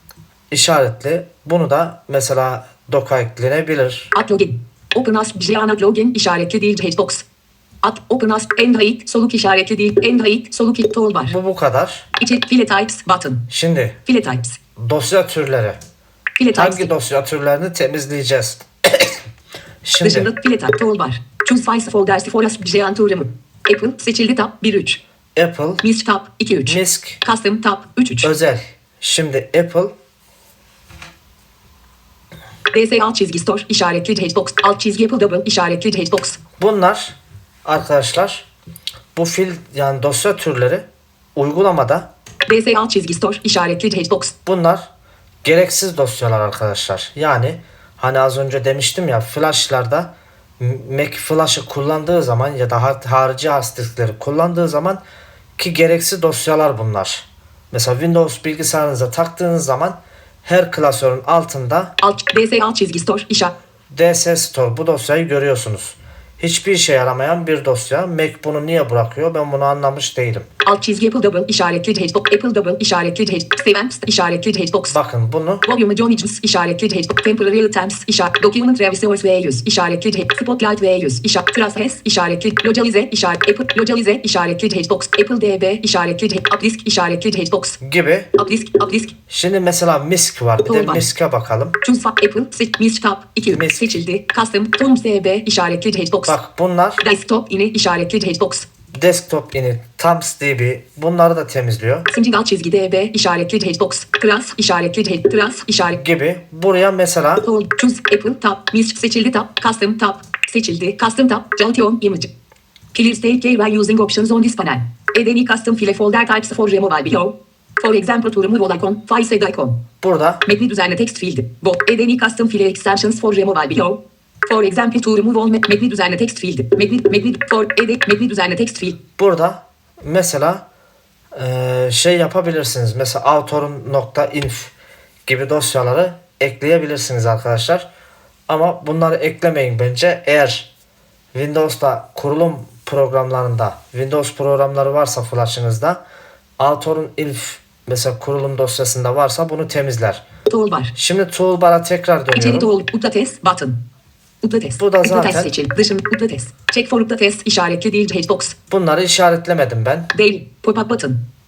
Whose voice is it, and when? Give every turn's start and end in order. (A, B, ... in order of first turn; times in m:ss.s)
0:00.5-0:04.1 A
0:04.1-0:07.3 B
0:07.8-0:11.4 B
0:11.3-0:12.1 A
0:12.2-0:13.4 B
0:13.5-0:14.0 A
0:14.1-0:14.6 B
0:14.8-0:15.8 A
0:16.4-0:16.9 B
0:16.6-0:19.2 A
0:19.8-0:20.3 A
0:20.0-0:25.0 B
0:25.4-0:25.8 A
0:25.8-0:28.3 B
0:26.7-0:27.2 A
0:28.2-0:29.9 A
0:32.7-0:36.4 B
0:36.6-0:38.5 A
0:39.2-0:42.1 A
0:42.5-0:44.4 B
0:44.5-0:44.9 A
0:45.4-0:55.0 A
0:55.6-1:01.9 A
1:02.0-1:03.6 B
1:03.9-1:10.5 A
1:10.6-1:15.0 B
1:14.9-1:15.7 A
1:15.6-1:27.8 B
1:27.8-1:28.3 A
1:28.4-1:29.1 B
1:29.3-1:31.8 A
1:30.6-1:31.0 B
1:31.8-1:36.4 B
1:33.5-1:34.0 A
1:36.3-1:37.0 A
1:37.0-1:38.7 B
1:38.9-1:42.1 A
1:42.1-1:46.0 B
1:45.9-1:47.5 A
1:47.4-1:52.3 B
1:52.9-1:59.8 B
2:00.0-2:00.4 A
2:00.5-2:09.0 B
2:09.2-2:10.6 A
2:11.4-2:14.7 A
2:15.3-2:17.9 A
2:18.5-2:20.7 A
2:21.3-2:26.0 A
2:26.6-2:30.2 A
2:30.5-2:30.9 B
2:31.0-2:32.7 A
2:32.4-2:33.8 B
2:34.4-2:38.6 B
2:34.8-2:35.5 A
2:38.7-2:40.1 A
2:40.1-2:41.2 B